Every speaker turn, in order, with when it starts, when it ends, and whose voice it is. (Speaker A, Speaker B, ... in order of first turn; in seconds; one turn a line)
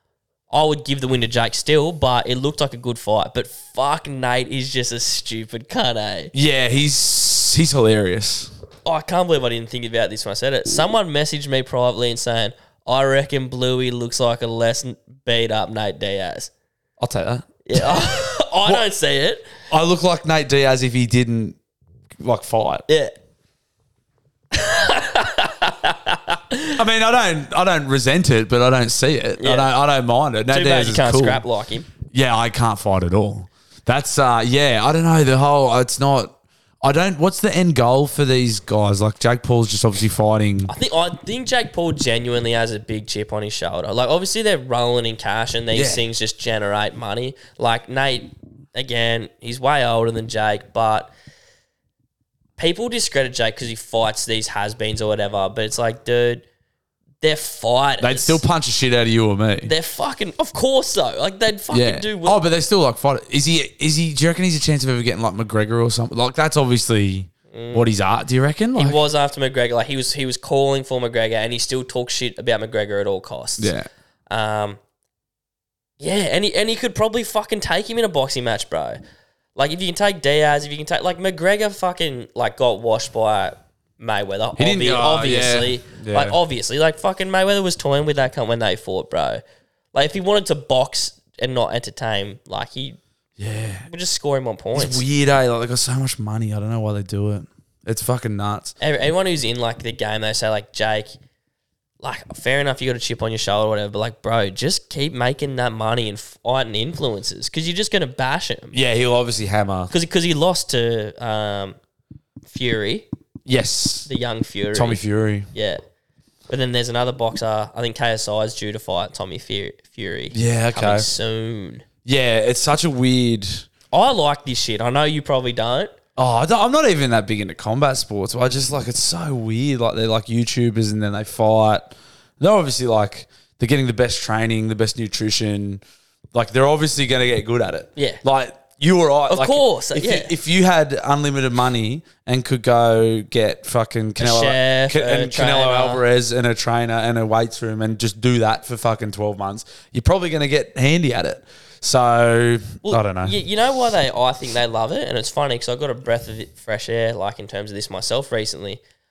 Speaker A: 0.5-6.3
Speaker B: 6.3-8.5
Speaker A: 8.8-16.5
Speaker B: 17.0-18.8
Speaker A: 17.6-19.5
Speaker B: 19.7-21.6
Speaker B: 22.2-22.8
Speaker A: 22.9-23.1
Speaker A: 24.5-26.8
Speaker B: 26.8-31.4
Speaker A: 29.4-29.7
Speaker A: 30.5-31.9
Speaker B: 32.1-40.7
Speaker A: 40.7-51.1
Speaker B: 45.7-46.0
Speaker A: 52.6-56.4
Speaker A: 57.2-58.4
Speaker B: 58.0-59.7
Speaker A: 59.6-62.4
Speaker B: 61.7-69.0
Speaker A: 67.5-67.9
Speaker A: 68.8-73.7
Speaker B: 73.6-73.9
Speaker A: 74.3-74.8
Speaker A: 76.0-79.0
Speaker A: 79.5-89.4
Speaker B: 84.6-86.3
Speaker A: 89.9-93.0
Speaker B: 93.4-93.9
Speaker A: 93.9-95.0
Speaker B: 94.7-98.7
Speaker A: 98.8-101.1
Speaker A: 102.0-108.8
Speaker B: 108.7-109.9
Speaker A: 109.9-111.8
Speaker A: 112.5-113.1
Speaker B: 113.5-114.1
Speaker A: 114.1-115.0
Speaker B: 114.7-115.5
Speaker A: 115.5-115.8
Speaker A: 116.5-121.8
Speaker B: 120.3-121.1
Speaker B: 122.0-123.7
Speaker A: 123.9-125.9
Speaker B: 126.2-135.8
Speaker B: 136.3-153.3
Speaker A: 137.9-138.2
Speaker A: 139.3-140.3
Speaker A: 144.2-146.0
Speaker A: 152.8-158.8